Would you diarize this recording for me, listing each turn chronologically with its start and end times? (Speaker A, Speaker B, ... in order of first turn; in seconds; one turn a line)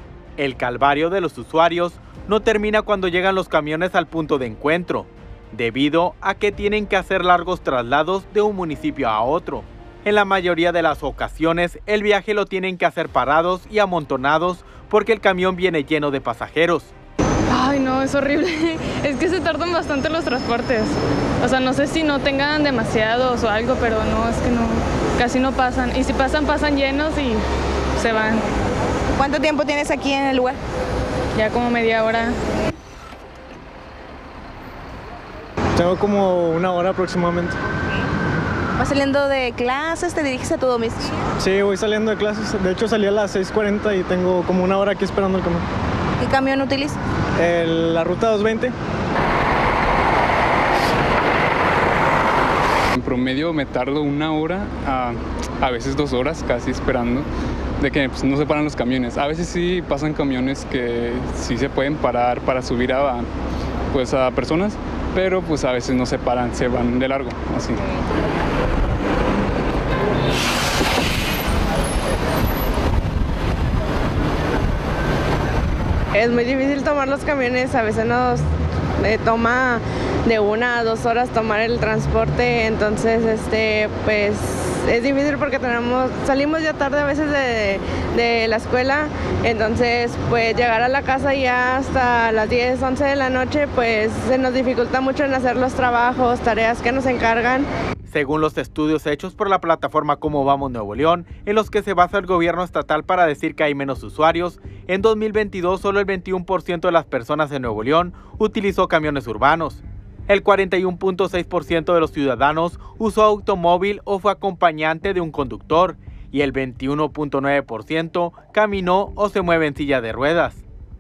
Speaker A: 0.4-16.9
Speaker B: 17.5-27.4
Speaker B: 28.0-28.4
Speaker C: 29.1-30.6
Speaker B: 31.4-32.4
Speaker D: 35.8-37.6
Speaker C: 38.8-41.2
Speaker D: 41.4-45.7
Speaker C: 46.2-47.0
Speaker D: 47.4-48.7
Speaker E: 53.0-57.3
Speaker E: 57.8-63.3
Speaker E: 63.9-67.8
Speaker F: 76.1-78.5
Speaker F: 79.0-97.7
Speaker A: 98.1-120.7